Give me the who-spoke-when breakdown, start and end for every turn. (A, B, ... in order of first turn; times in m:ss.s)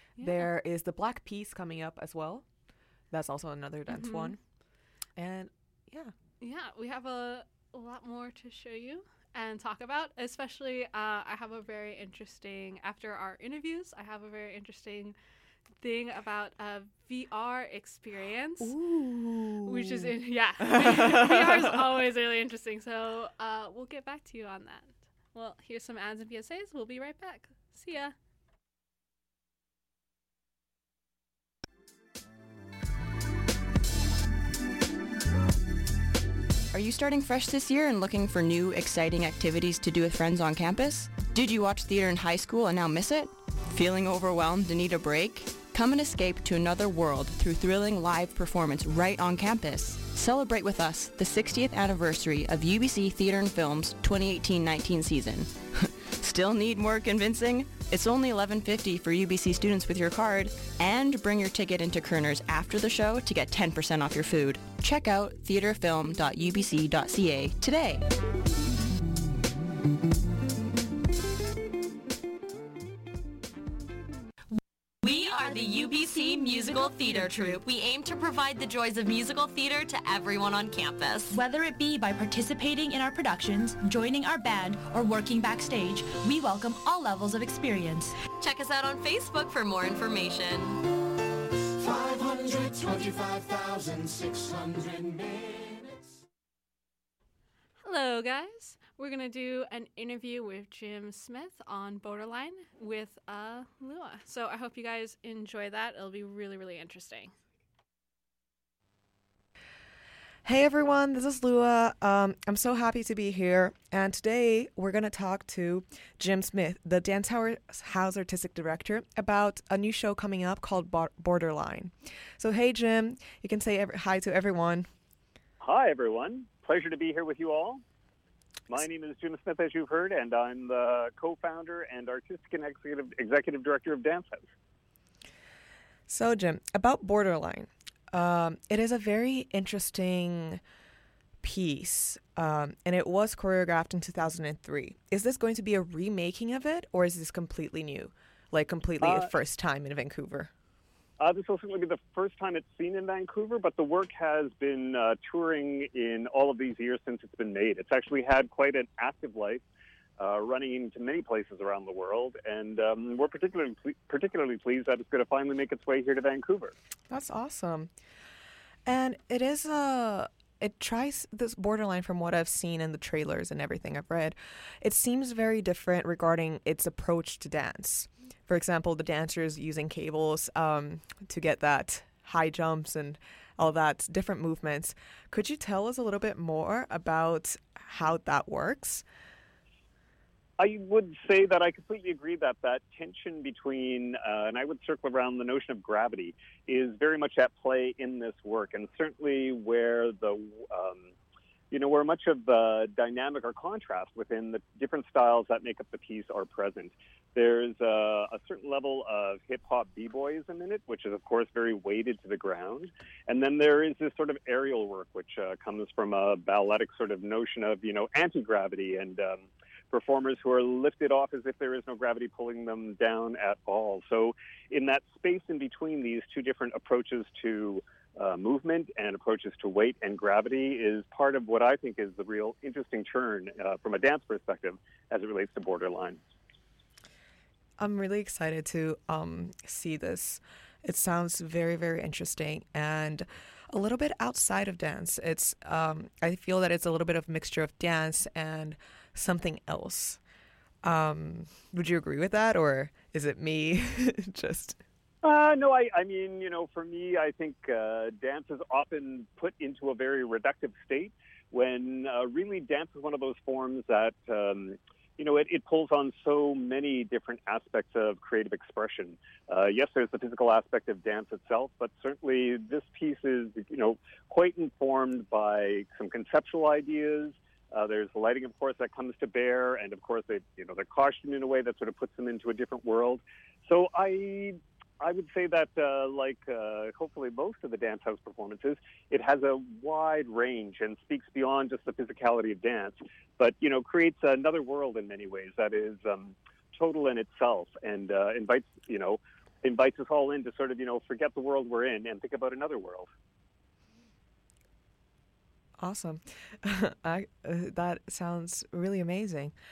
0:00.2-0:00.5 A
0:00.2-0:02.5 B
0:03.1-0:04.4 B
0:03.9-0:04.4 A
0:05.2-0:06.1 B
0:06.4-0:15.2 A
0:15.8-0:18.8 A
0:18.6-0:21.8 B
0:19.6-0:28.1 A
0:36.7-1:08.0 C
1:15.0-1:21.4 D
1:21.3-1:28.2 E
1:28.4-1:30.8 D
1:37.8-1:47.3 A
1:50.4-2:04.9 B
2:05.6-2:07.8 F
2:08.7-2:14.5 F
2:16.1-2:20.6 B
2:21.4-2:30.5 B
2:29.0-2:29.3 F
2:31.2-2:39.6 F
2:40.2-2:46.7 F
2:47.1-2:47.9 B
2:48.9-3:09.0 B
3:10.6-3:21.1 F
3:21.7-3:56.2 F
3:57.8-4:10.2 B
4:10.8-4:14.8 B
4:15.2-5:03.1 F
5:05.8-5:09.6 B